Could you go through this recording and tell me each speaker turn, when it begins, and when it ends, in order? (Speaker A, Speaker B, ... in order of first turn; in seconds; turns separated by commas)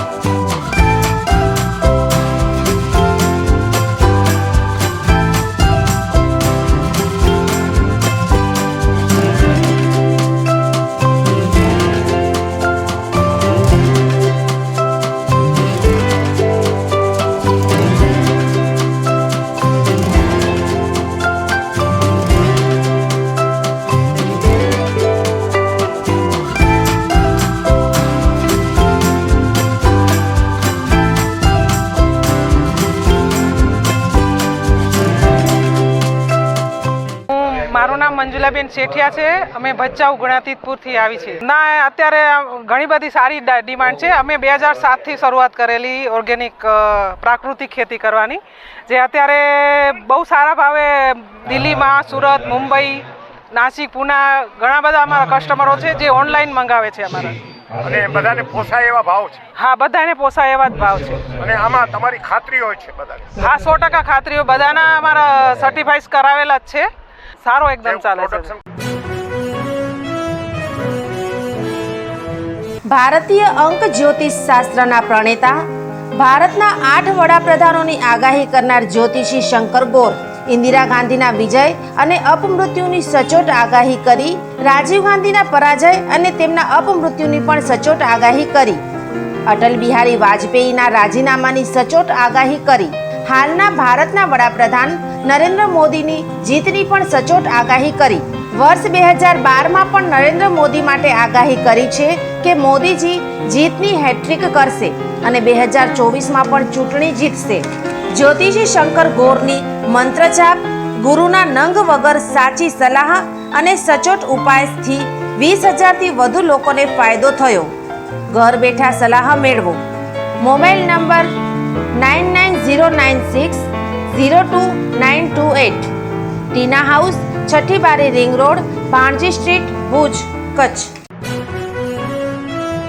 Speaker A: 37.3-57.4, Speaker B: 57.8-59.4, Speaker A: 59.6-61.3, Speaker B: 61.4-63.3, Speaker A: 63.4-66.9, Speaker A: 67.4-68.5, Speaker C: 72.9-75.6, Speaker C: 76.2-88.8, Speaker C: 89.5-117.7, Speaker C: 118.3-119.8, Speaker C: 120.4-121.3, Speaker C: 122.0-125.9, Speaker C: 126.5-130.9